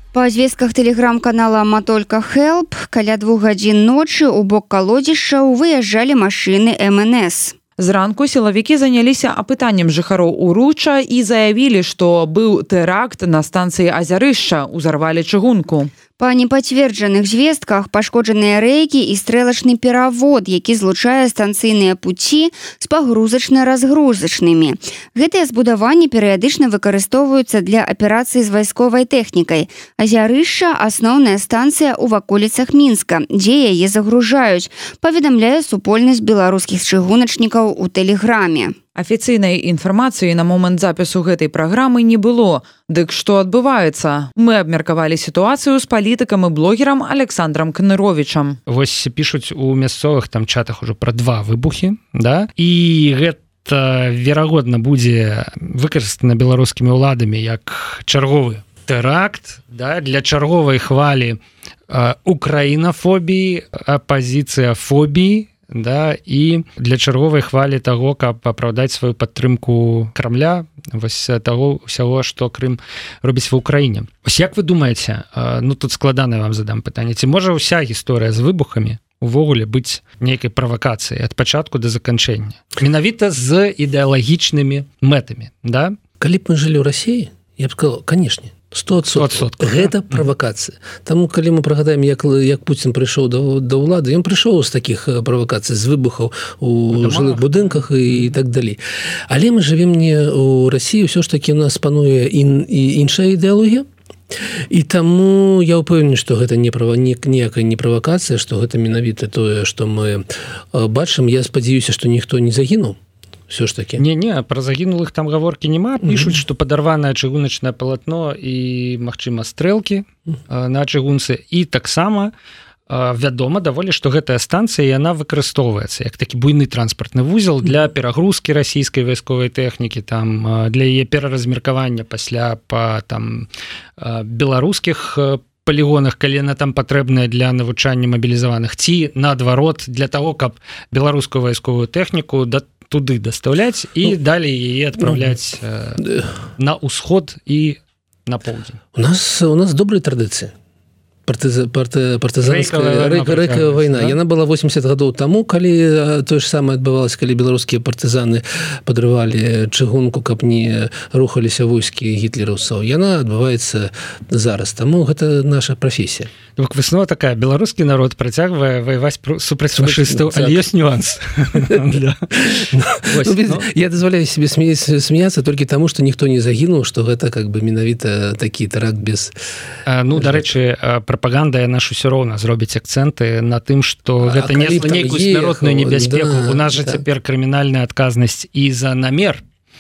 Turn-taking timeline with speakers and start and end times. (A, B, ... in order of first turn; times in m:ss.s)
0:00.1-0:07.6 A
0:07.8-0:15.9 B
0:16.2-0:38.8 A
0:39.0-0:48.6 B
0:48.7-1:01.4 C
1:01.9-1:26.0 C
1:26.2-1:43.9 D
1:29.1-1:30.2 C
1:36.9-1:38.3 C
1:44.7-1:53.0 D
1:53.5-1:54.0 D
1:54.0-2:02.3 C
1:56.0-1:56.4 D
2:02.9-2:26.0 C
2:25.0-2:25.4 D
2:26.0-2:26.3 D
2:26.6-2:28.8 C
2:29.0-2:30.5 D
2:31.3-2:46.3 D
2:32.4-2:34.2 C
2:46.6-2:53.7 C
2:49.7-2:50.7 D
2:52.4-2:59.3 D
2:59.9-3:09.4 C
3:00.2-3:00.5 D
3:04.2-3:07.0 D